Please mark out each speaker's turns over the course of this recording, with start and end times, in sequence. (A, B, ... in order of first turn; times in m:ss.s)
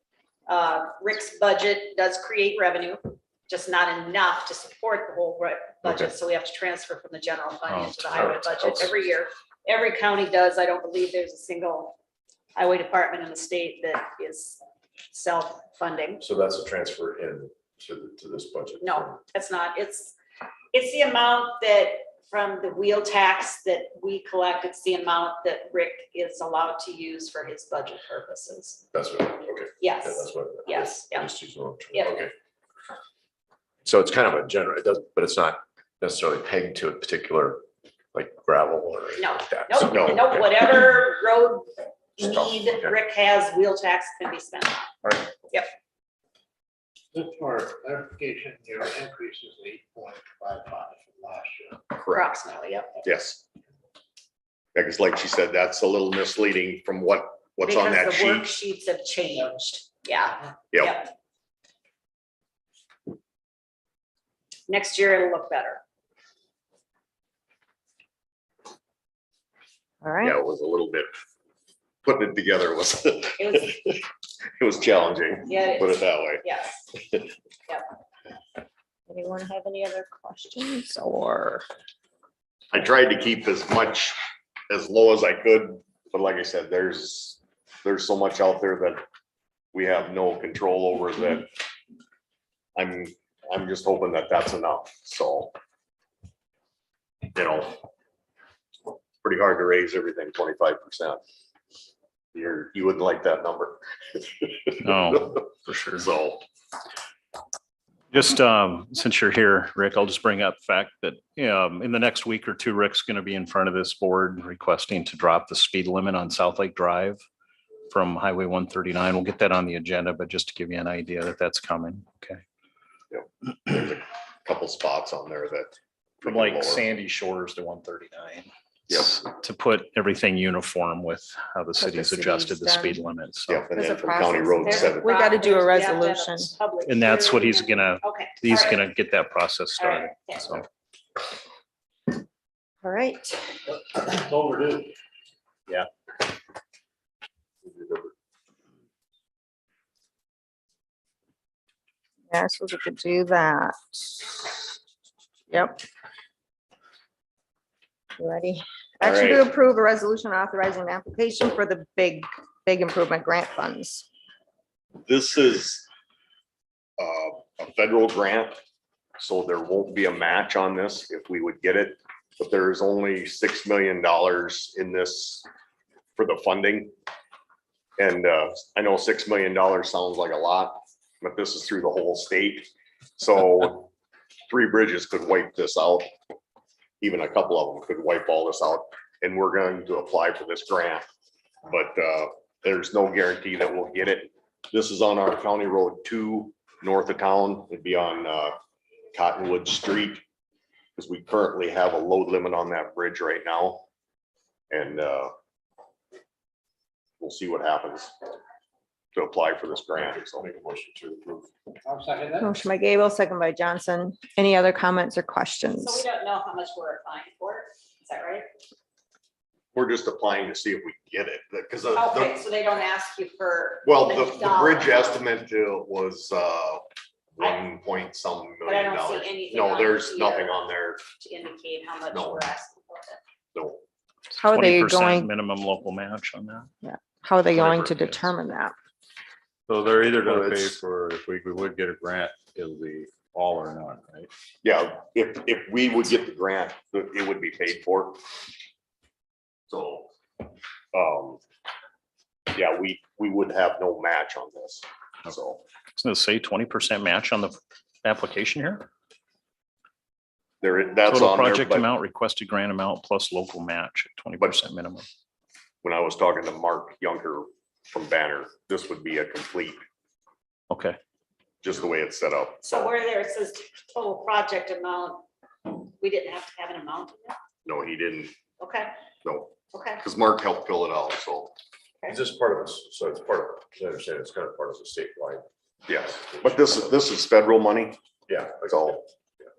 0:00.5-0:12.0 A
0:05.8-0:06.1 B
0:07.7-0:08.6 C
0:08.2-0:08.9 B
0:12.5-0:14.6 A
0:15.1-0:16.2 A
0:16.2-0:19.2 B
0:18.8-0:20.2 A
0:20.7-0:28.8 A
0:28.9-0:32.3 B
0:29.8-0:31.3 A
0:31.9-0:32.3 A
0:33.8-0:40.6 B
0:39.2-0:44.9 A
0:42.2-0:42.9 B
0:47.1-0:51.8 D
0:52.1-0:52.9 A
0:53.0-0:53.4 E
0:54.7-0:58.5 E
0:57.6-1:01.1 A
1:00.7-1:01.0 E
1:04.7-1:05.8 A
1:10.0-1:10.4 F
1:10.2-1:11.1 E
1:12.0-1:14.0 E
1:13.4-1:13.7 A
1:14.6-1:16.4 E
1:15.4-1:16.8 A
1:19.1-1:21.6 F
1:22.7-1:24.2 E
1:24.7-1:29.0 E
1:29.7-1:31.5 E
1:32.8-1:35.6 E
1:37.3-1:37.8 E
1:39.2-1:41.2 E
1:42.3-1:45.4 E
1:44.8-1:46.1 C
1:46.0-1:46.4 E
1:48.1-1:57.2 C
1:57.9-2:02.4 C
2:03.1-2:06.8 E
2:06.2-2:13.7 C
2:08.9-2:09.2 E
2:11.8-2:13.0 F
2:13.5-2:15.1 E
2:13.7-2:16.5 F
2:14.6-2:18.9 A
2:16.8-2:20.6 C
2:19.8-2:20.6 A
2:22.8-2:23.4 F
2:23.9-2:24.9 D
2:27.6-2:28.1 E
2:32.3-2:34.8 F
2:35.5-2:35.8 F
2:38.2-2:44.1 F
2:39.0-2:39.4 E
2:45.0-2:45.8 E
2:47.0-2:48.6 E
2:49.2-2:55.4 E
2:56.2-2:56.9 E
2:58.0-3:03.9 E
3:04.5-3:06.1 E
3:07.0-3:11.0 E
3:11.7-3:18.5 E
3:19.1-3:20.2 E
3:21.0-3:23.8 E
3:24.7-3:25.3 E
3:27.2-3:28.1 E
3:29.1-3:30.5 E
3:29.8-3:31.5 B
3:31.8-3:32.4 D
3:32.4-3:36.0 F
3:35.8-3:38.5 A
3:39.7-3:42.4 E
3:42.0-3:45.1 A
3:43.8-3:46.8 E
3:47.4-3:51.0 E
3:48.6-3:50.6 A
3:51.2-3:53.2 A
3:52.1-3:52.4 E
3:53.5-3:53.8 E
3:54.4-3:55.3 F
3:54.4-3:56.7 C
3:56.8-3:58.7 F
3:57.5-3:58.3 C
3:59.7-4:04.3 G
4:00.2-4:00.7 E
4:04.6-4:08.2 E
4:09.7-4:10.1 E
4:10.9-4:11.4 E
4:12.5-4:15.6 E
4:16.0-4:18.9 C
4:20.6-4:21.9 E
4:21.0-4:25.0 C
4:25.8-4:29.8 E
4:30.7-4:31.0 C
4:31.6-4:32.9 E
4:32.6-4:35.2 A
4:35.8-4:37.4 A
4:37.6-4:38.3 E
4:38.6-4:38.9 A
4:39.2-4:41.5 E
4:39.7-4:40.0 A
4:42.1-4:45.4 B
4:45.9-4:48.0 E
4:48.3-4:48.8 B
4:48.6-4:49.0 E